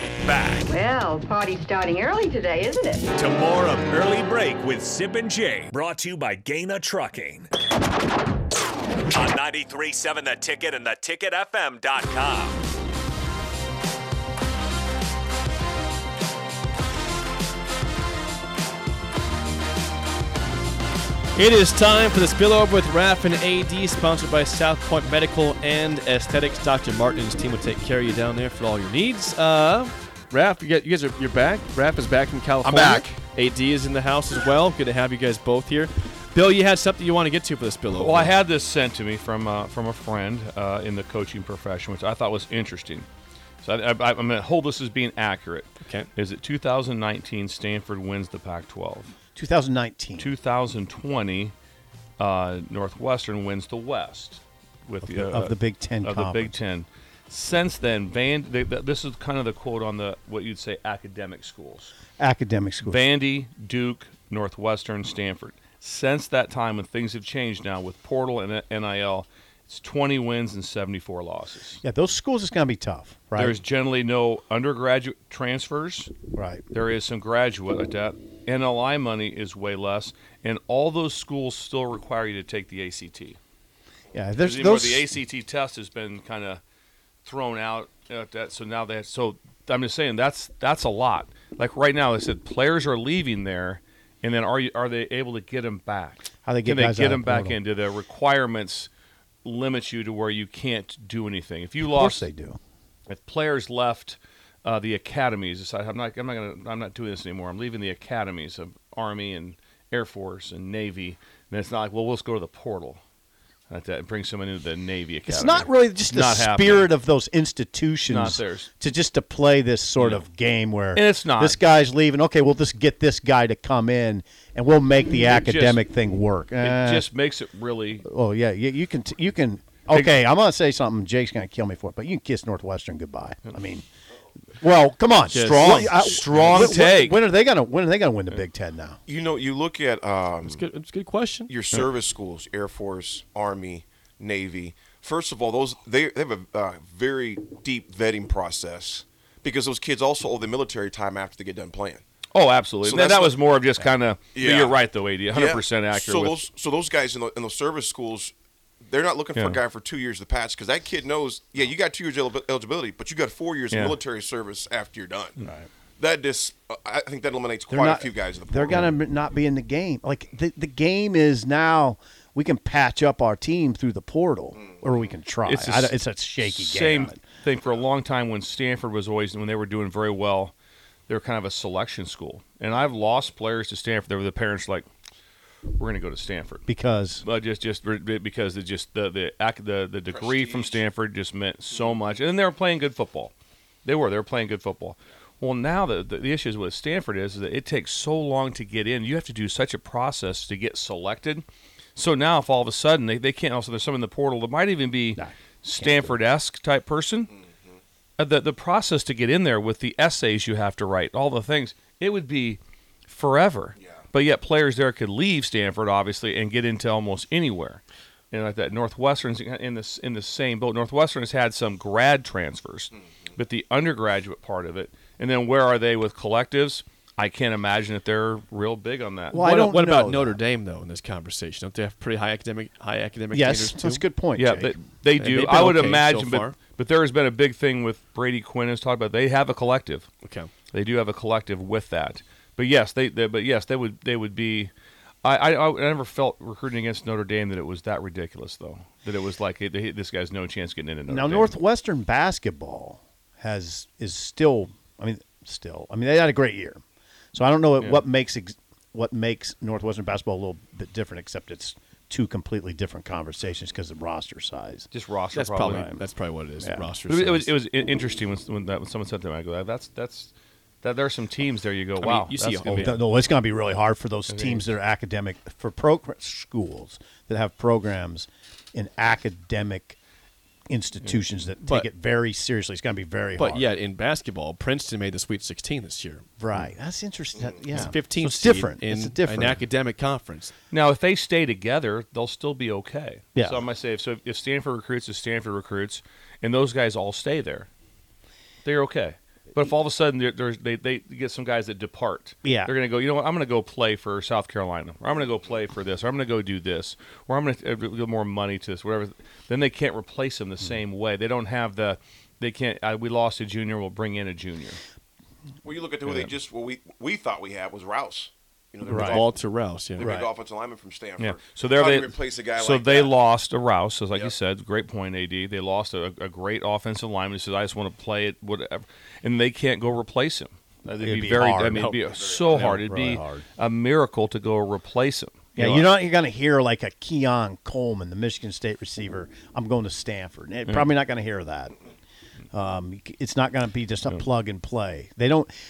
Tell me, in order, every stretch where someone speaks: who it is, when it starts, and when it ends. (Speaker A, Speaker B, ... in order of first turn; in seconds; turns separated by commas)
Speaker A: 0.2-0.7, Speaker B: 0.7-3.1, Speaker A: 3.1-7.5, Speaker A: 9.1-12.6, Speaker C: 21.3-38.3, Speaker D: 32.6-33.2, Speaker D: 37.9-43.1, Speaker D: 43.6-49.1, Speaker C: 45.8-46.1, Speaker E: 49.3-50.3, Speaker D: 50.2-51.5, Speaker D: 52.2-61.9, Speaker E: 55.0-56.6, Speaker E: 62.2-63.0, Speaker D: 62.8-71.8, Speaker E: 71.8-73.6, Speaker D: 73.3-76.1, Speaker E: 76.3-76.6, Speaker D: 76.7-83.4, Speaker E: 84.1-85.1, Speaker D: 84.4-86.6, Speaker D: 87.2-98.9, Speaker E: 96.4-97.6, Speaker D: 99.4-102.3, Speaker E: 101.8-102.6, Speaker D: 103.1-113.0, Speaker D: 113.7-116.9, Speaker E: 115.3-127.1, Speaker D: 118.1-118.7, Speaker D: 120.9-121.6, Speaker D: 125.3-125.8, Speaker D: 126.6-128.1, Speaker E: 128.0-133.8, Speaker D: 129.9-130.2, Speaker E: 134.6-139.0, Speaker C: 135.3-135.9, Speaker D: 135.3-137.2, Speaker F: 139.1-140.6, Speaker C: 140.4-141.5, Speaker F: 141.5-152.0, Speaker D: 152.3-156.4, Speaker F: 152.8-153.4, Speaker F: 154.3-154.8, Speaker F: 155.3-158.3, Speaker F: 158.8-165.4, Speaker D: 163.7-164.0, Speaker E: 165.4-165.7, Speaker F: 166.0-168.9, Speaker E: 167.7-177.2, Speaker D: 175.4-180.5, Speaker D: 181.1-184.9, Speaker D: 185.7-186.7, Speaker E: 186.7-187.2, Speaker D: 187.2-193.3, Speaker F: 190.1-190.8, Speaker D: 193.8-201.4, Speaker D: 201.9-207.3, Speaker E: 205.2-206.2, Speaker D: 208.2-229.4, Speaker E: 229.3-230.4, Speaker C: 229.3-234.1, Speaker E: 233.3-234.7, Speaker D: 234.3-240.1, Speaker C: 235.2-236.6, Speaker C: 240.2-240.5, Speaker D: 240.7-244.7, Speaker D: 245.2-251.6, Speaker E: 251.1-256.8, Speaker E: 257.3-264.9, Speaker D: 264.9-265.9, Speaker C: 265.3-267.5, Speaker E: 265.7-266.0, Speaker E: 266.6-266.9, Speaker D: 267.1-273.0, Speaker C: 272.0-273.0, Speaker E: 272.7-280.0, Speaker D: 274.3-274.7, Speaker E: 280.7-283.7, Speaker C: 283.4-286.2, Speaker E: 286.4-289.6, Speaker C: 287.7-290.5, Speaker D: 290.7-297.7, Speaker E: 293.4-293.6, Speaker D: 298.6-314.8, Speaker E: 302.4-302.7, Speaker F: 315.6-319.3, Speaker D: 316.1-316.3, Speaker C: 318.9-320.1, Speaker E: 318.9-319.2, Speaker F: 320.0-323.1, Speaker E: 320.0-320.3, Speaker D: 321.2-335.9, Speaker E: 331.0-332.0, Speaker C: 331.8-332.8, Speaker F: 332.1-332.8, Speaker E: 332.8-333.4, Speaker E: 335.6-341.8, Speaker E: 342.5-345.5